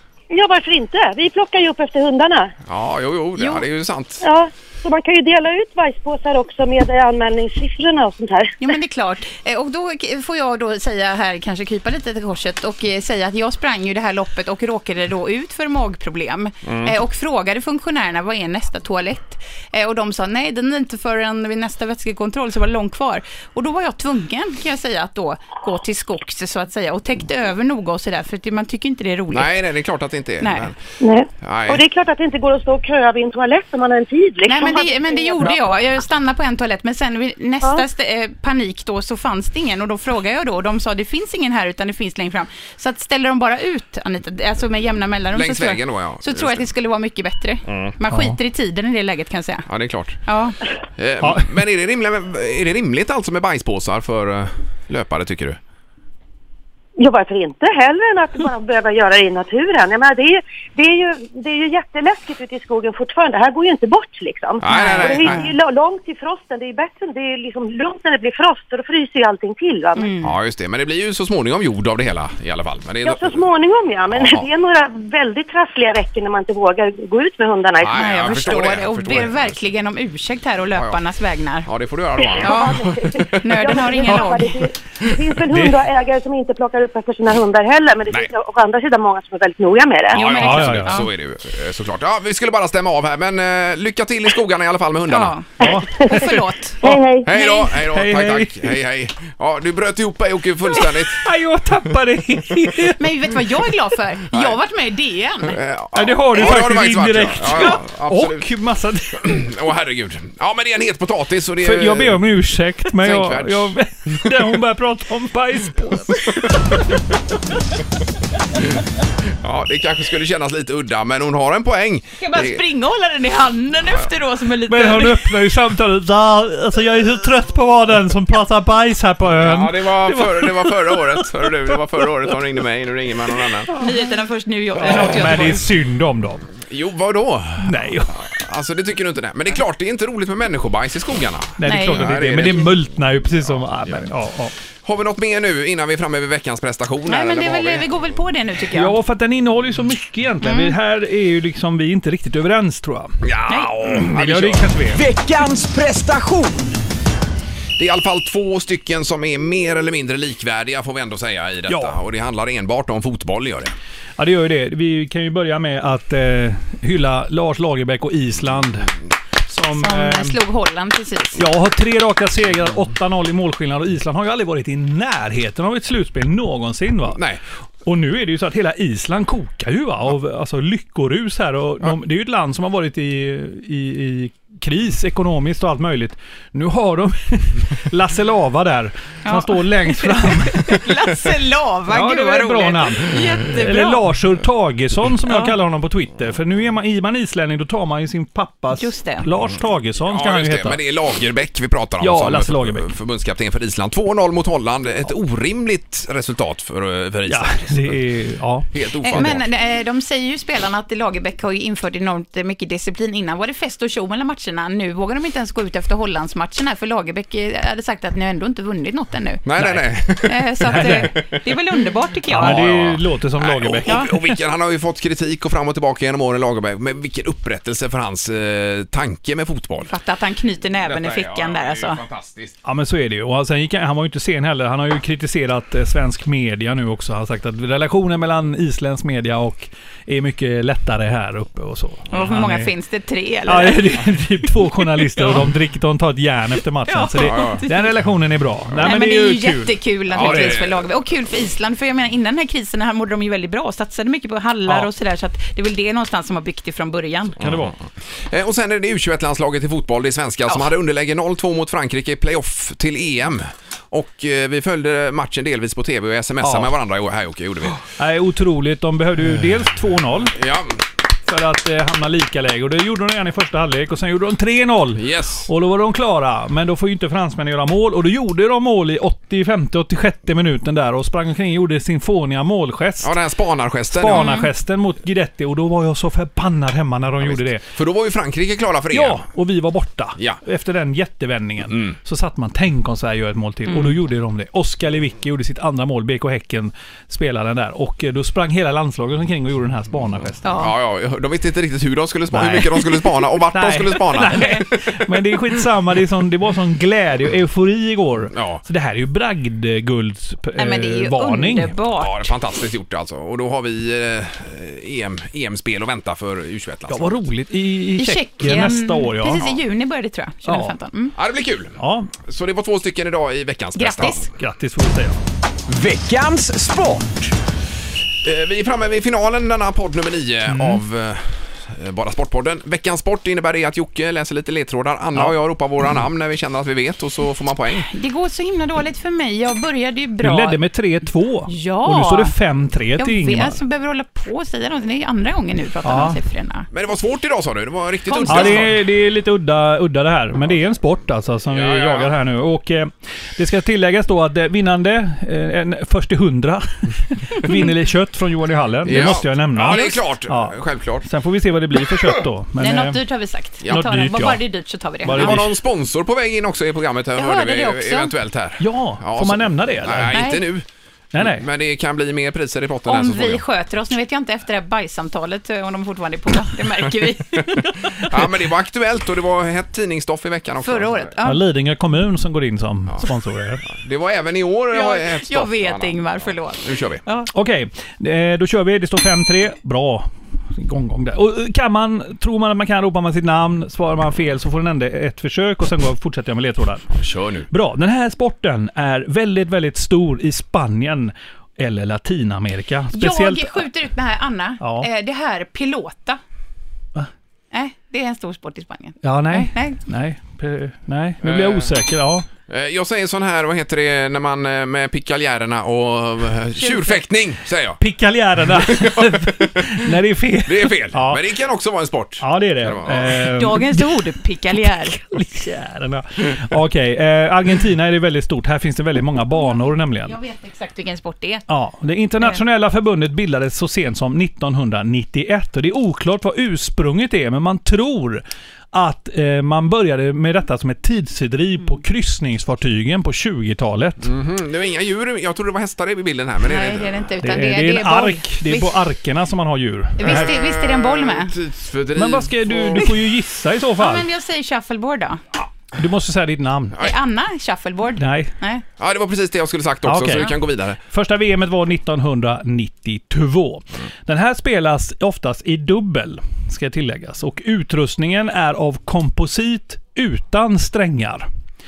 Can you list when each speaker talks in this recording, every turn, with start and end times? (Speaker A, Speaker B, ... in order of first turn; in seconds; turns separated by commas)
Speaker A: 0.3-2.5, Speaker B: 2.7-4.2, Speaker C: 3.4-3.6, Speaker A: 4.2-8.6, Speaker C: 8.6-29.6, Speaker B: 16.7-16.9, Speaker B: 29.3-30.8, Speaker C: 30.4-30.7, Speaker A: 31.0-35.7, Speaker B: 31.4-31.8, Speaker C: 34.5-49.7, Speaker B: 45.3-46.7, Speaker B: 47.7-47.9, Speaker D: 48.1-48.4, Speaker B: 49.7-50.2, Speaker C: 50.3-50.6, Speaker B: 51.0-55.6, Speaker D: 51.2-51.5, Speaker A: 57.0-70.1, Speaker B: 64.6-65.4, Speaker C: 64.7-65.5, Speaker C: 70.0-70.3, Speaker B: 70.2-73.4, Speaker A: 73.0-78.1, Speaker B: 74.1-74.5, Speaker B: 77.8-79.6, Speaker C: 78.0-81.7, Speaker B: 80.7-81.0, Speaker B: 81.7-83.7, Speaker A: 82.2-90.2, Speaker C: 82.4-82.8, Speaker C: 83.4-84.7, Speaker D: 85.5-85.8, Speaker C: 90.1-91.1, Speaker B: 90.1-95.3, Speaker D: 90.3-91.0, Speaker C: 95.1-96.8, Speaker D: 95.6-95.9, Speaker A: 95.6-96.3, Speaker A: 96.8-97.3, Speaker B: 97.2-101.2, Speaker C: 97.3-97.7, Speaker D: 97.9-98.7, Speaker D: 101.1-103.0, Speaker C: 103.0-105.6, Speaker B: 105.4-108.5, Speaker D: 105.9-109.5, Speaker B: 109.1-112.2, Speaker D: 111.6-117.1, Speaker B: 112.9-114.5, Speaker B: 119.2-122.6, Speaker C: 122.2-125.4, Speaker D: 124.7-132.3, Speaker B: 129.4-133.8, Speaker C: 133.8-135.7, Speaker D: 134.8-136.5, Speaker B: 136.6-142.8, Speaker D: 137.6-138.2, Speaker D: 141.6-144.5, Speaker C: 141.7-142.2, Speaker B: 144.8-148.2, Speaker C: 147.1-149.0, Speaker D: 148.7-153.2, Speaker C: 150.4-150.8, Speaker B: 153.2-154.8, Speaker D: 153.9-155.0, Speaker E: 154.9-156.8, Speaker B: 157.8-163.7, Speaker D: 161.7-162.0, Speaker D: 164.2-168.9, Speaker D: 169.5-170.4, Speaker C: 169.7-171.4, Speaker D: 171.4-177.2, Speaker B: 177.1-177.4, Speaker D: 177.8-190.8, Speaker C: 189.2-194.0, Speaker D: 191.9-200.8, Speaker C: 195.2-195.6, Speaker C: 198.8-199.3, Speaker B: 200.0-208.0, Speaker D: 202.0-202.9, Speaker D: 207.3-209.4, Speaker B: 208.7-209.4, Speaker C: 209.0-219.5, Speaker B: 219.4-221.6, Speaker C: 220.2-222.7, Speaker D: 220.7-221.2, Speaker B: 222.3-229.9, Speaker D: 222.3-224.2, Speaker C: 223.9-224.1, Speaker C: 229.9-232.0, Speaker B: 230.8-232.6, Speaker D: 232.6-242.7, Speaker C: 242.1-244.0, Speaker D: 243.5-250.6, Speaker C: 245.0-245.4, Speaker C: 246.9-247.9, Speaker B: 247.2-247.6, Speaker C: 248.8-257.4, Speaker B: 250.1-250.9, Speaker D: 257.4-257.7, Speaker B: 257.4-267.8, Speaker D: 266.4-266.7, Speaker D: 268.0-270.4, Speaker B: 270.3-270.8, Speaker D: 271.3-283.1, Speaker B: 274.9-275.5, Speaker B: 283.0-284.4, Speaker D: 283.9-287.6, Speaker C: 284.1-284.5, Speaker B: 287.2-289.2, Speaker D: 288.9-300.6, Speaker B: 291.7-292.0, Speaker C: 293.7-294.0, Speaker C: 300.4-300.7, Speaker B: 300.6-304.6, Speaker D: 302.3-311.7, Speaker B: 308.3-308.6, Speaker C: 310.6-312.3, Speaker B: 312.0-317.2, Speaker D: 316.9-319.5, Speaker C: 318.0-321.2, Speaker D: 320.4-320.7, Speaker B: 321.2-324.3, Speaker D: 321.8-322.1, Speaker C: 323.8-324.3, Speaker D: 324.4-325.2, Speaker E: 325.7-327.3, Speaker B: 328.2-337.9, Speaker D: 330.5-330.8, Speaker C: 337.7-340.6, Speaker D: 340.2-343.6, Speaker C: 341.5-342.3, Speaker C: 343.0-346.7, Speaker D: 345.8-346.2, Speaker B: 346.7-348.7, Speaker C: 348.1-348.7, Speaker D: 348.3-363.0, Speaker B: 351.5-352.1, Speaker B: 358.9-361.1, Speaker C: 359.6-360.0, Speaker C: 362.6-365.5, Speaker D: 363.7-364.4, Speaker D: 365.0-365.5, Speaker B: 365.1-370.7, Speaker C: 367.1-368.1, Speaker D: 368.6-370.2, Speaker C: 370.1-370.4, Speaker D: 371.1-371.5, Speaker B: 371.2-373.4, Speaker C: 372.9-378.2, Speaker B: 377.4-381.1, Speaker C: 380.6-381.4, Speaker D: 381.2-383.7, Speaker B: 383.6-387.0, Speaker C: 384.7-387.3, Speaker D: 387.3-396.9, Speaker B: 396.9-397.5, Speaker D: 397.5-403.7, Speaker C: 402.9-406.2, Speaker D: 404.6-404.9, Speaker C: 407.5-409.8, Speaker D: 409.0-412.3, Speaker B: 411.2-411.8, Speaker B: 412.5-417.8, Speaker C: 416.6-417.0, Speaker D: 417.8-421.2, Speaker B: 418.6-419.9, Speaker B: 420.5-423.1, Speaker D: 422.2-430.2, Speaker C: 423.3-425.0, Speaker C: 430.1-431.4, Speaker D: 431.5-444.1, Speaker B: 444.0-447.1, Speaker C: 446.4-448.8, Speaker D: 447.2-450.3, Speaker C: 450.0-451.3, Speaker B: 450.0-452.9, Speaker D: 452.0-454.1, Speaker C: 453.8-455.2, Speaker D: 455.8-456.9, Speaker C: 456.8-458.6, Speaker D: 458.0-458.3, Speaker B: 458.8-460.8, Speaker D: 459.9-471.3